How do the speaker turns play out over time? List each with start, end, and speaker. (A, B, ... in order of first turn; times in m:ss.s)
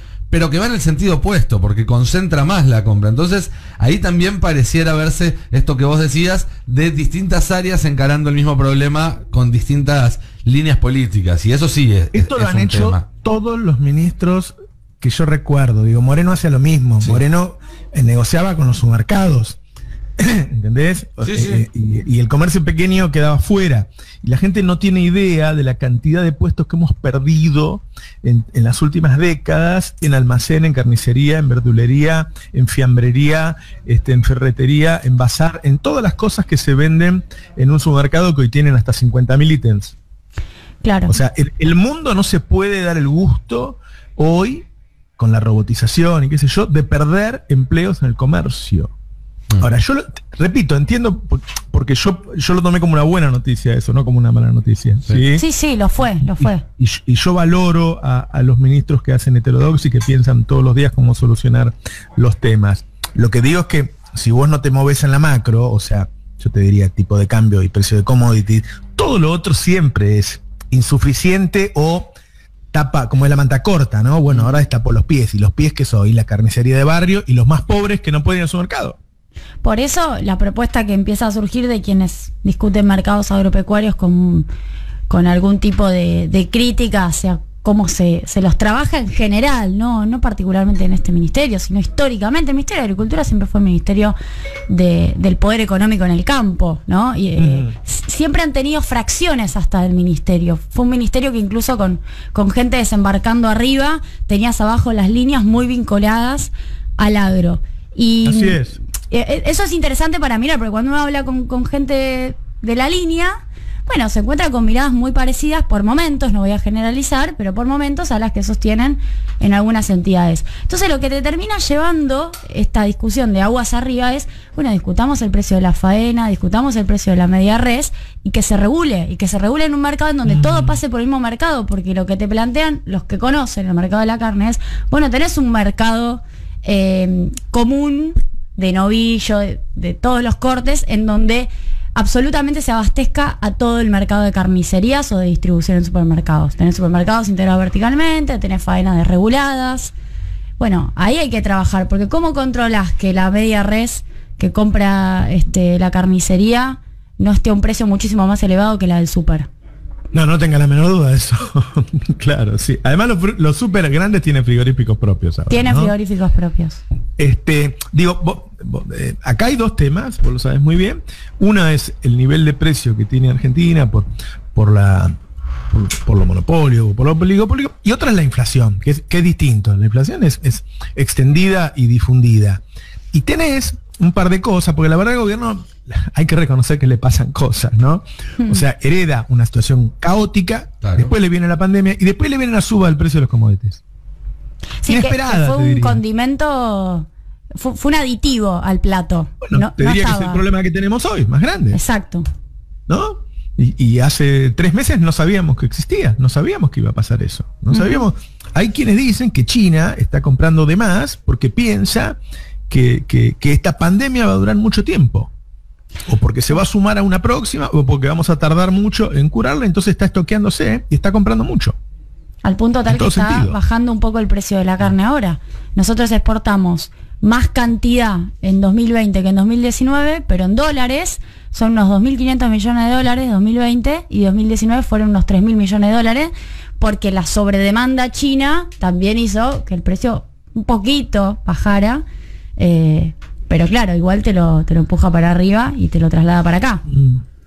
0:00.3-0:13.0 A
0:12.1-0:19.6 B
0:20.2-0:40.0 B
0:21.2-0:21.6 A
0:40.8-0:41.2 C
0:41.1-0:44.7 B
0:45.2-0:48.9 B
0:49.6-0:55.4 B
0:55.3-0:56.6 C
0:56.3-1:12.1 B
1:12.7-1:19.0 B
1:19.6-1:24.4 C
1:25.1-1:34.2 C
1:34.7-1:53.3 C
1:37.4-1:37.7 B
1:48.2-1:48.8 B
1:53.8-2:29.9 C
2:10.3-2:10.8 B
2:30.6-2:39.5 C
2:40.1-2:45.9 B
2:45.5-2:46.8 C
2:47.2-2:55.1 B
2:55.7-3:13.8 B
3:10.8-3:11.1 A
3:14.8-3:20.4 C
3:14.9-3:16.0 B
3:19.4-3:21.8 B
3:21.7-3:22.2 C
3:22.9-3:32.2 B
3:27.7-3:28.1 C
3:32.7-3:35.3 B
3:36.0-3:41.8 B
3:42.4-4:02.0 C
3:42.9-3:43.6 B
4:02.6-4:06.8 C
4:06.9-4:07.2 B